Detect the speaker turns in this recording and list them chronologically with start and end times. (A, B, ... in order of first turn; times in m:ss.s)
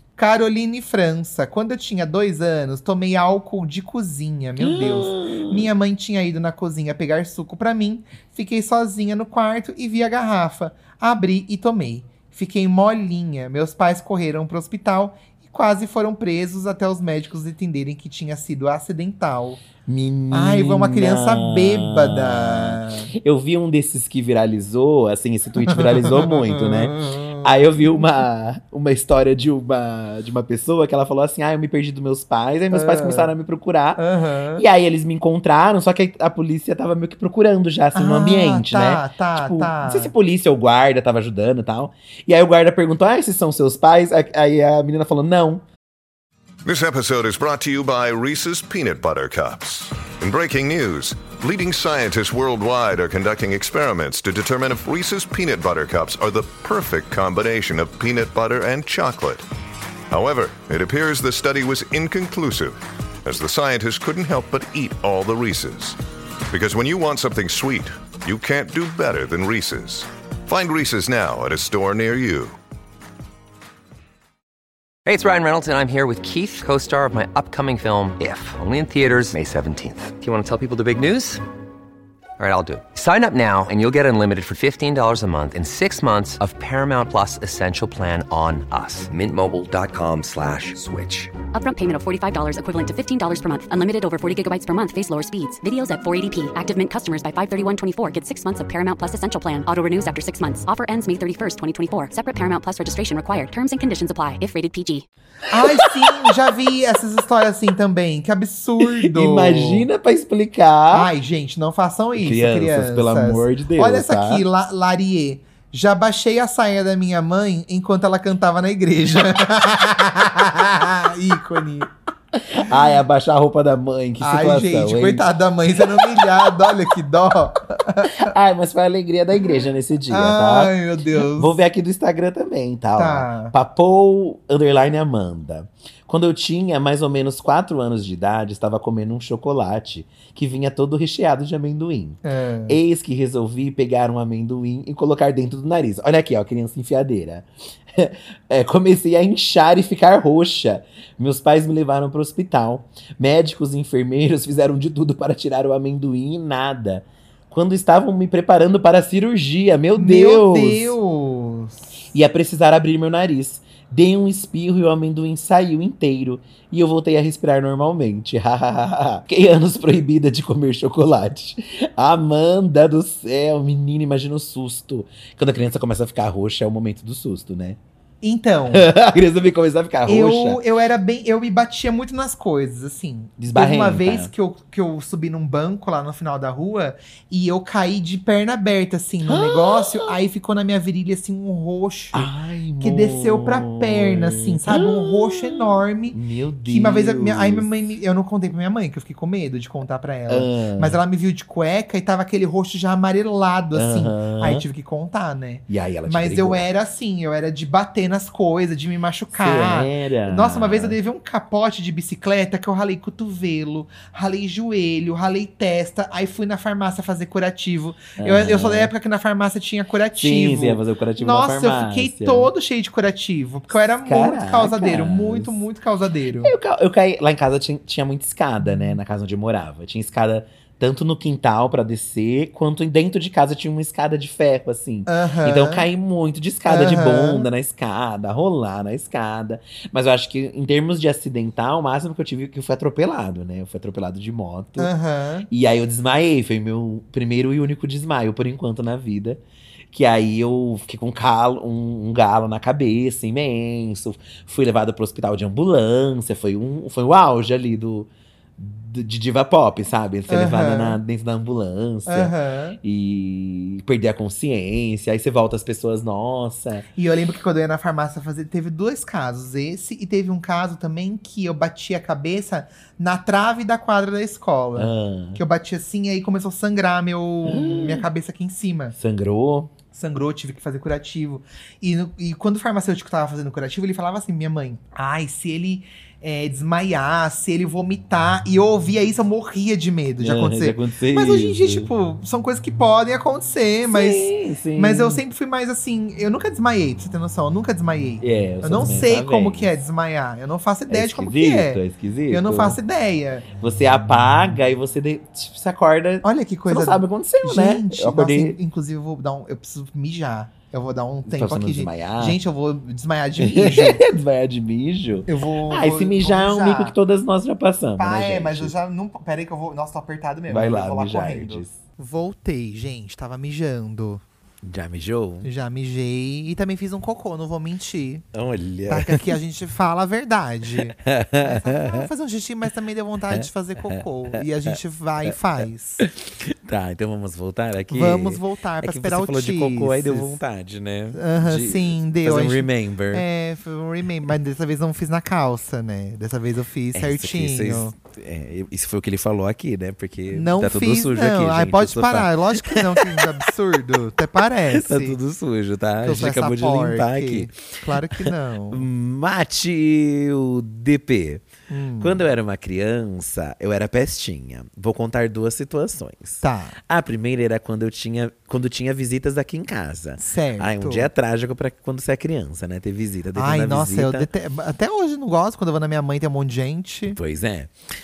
0:00.2-0:19.6 A
0:04.6-0:05.7 B
0:19.8-0:34.0 B
0:20.3-0:23.1 A
0:25.7-0:28.1 A
0:32.7-0:33.3 A
0:34.0-0:34.6 A
0:34.6-0:45.6 B
0:37.9-0:40.1 A
0:46.6-0:59.4 C
1:00.1-1:06.0 C
1:06.5-1:12.5 C
1:15.0-1:21.4 D
1:22.4-1:31.3 D
1:31.5-1:45.0 E
1:45.5-1:49.9 A
1:45.6-1:46.2 B
1:48.8-1:51.1 B
1:50.9-2:01.9 A
1:52.2-1:54.4 B
2:02.5-2:05.2 B
2:04.2-2:08.3 A
2:08.0-2:10.7 B
2:10.1-2:11.6 A
2:11.4-2:41.0 B
2:13.0-2:13.5 A
2:22.2-2:22.8 A
2:39.9-2:41.8 A
2:42.1-2:57.8 B
2:58.2-2:58.9 A
2:58.7-3:00.6 B
3:00.0-3:46.5 A
3:03.4-3:04.3 B
3:09.2-3:10.2 B
3:12.1-3:17.7 B
3:20.3-3:21.0 B
3:23.7-3:24.6 B
3:25.7-3:26.6 B
3:29.3-3:31.0 B
3:38.2-3:38.9 B
3:40.2-3:42.5 B
3:44.0-3:45.6 B
3:46.4-4:04.9 B
3:48.6-3:49.0 A
3:55.1-3:55.9 A
3:56.7-3:57.5 A
4:04.8-4:05.5 A
4:05.5-4:09.4 B
4:09.9-4:26.8 B
4:20.3-4:21.0 A
4:22.1-4:22.8 A
4:27.0-4:39.0 A
4:34.8-4:35.4 B
4:37.4-4:38.0 B
4:39.0-4:39.7 B
4:39.9-5:03.5 A
4:50.2-4:51.9 B
4:53.9-4:55.2 B
4:58.2-4:59.7 B
5:00.9-5:02.8 B
5:03.6-5:08.6 B
5:06.2-5:14.0 A
5:11.3-5:12.4 B
5:13.4-5:18.7 B
5:15.3-5:16.9 A
5:18.0-5:24.2 A
5:20.5-5:21.8 B
5:24.6-5:25.5 B
5:25.4-5:28.2 A
5:28.3-5:29.3 B
5:28.9-5:36.0 A
5:31.0-5:32.1 B
5:33.3-5:34.8 B
5:36.0-5:43.2 B
5:37.9-5:40.4 A
5:41.1-5:47.9 A
5:46.9-5:53.4 B
5:50.3-5:55.2 A
5:54.7-6:01.4 B
5:56.0-5:58.8 A
6:01.7-6:02.2 A
6:02.0-6:14.3 B
6:06.4-6:06.8 A
6:10.2-6:11.1 A
6:13.4-6:17.2 A
6:17.1-6:17.7 B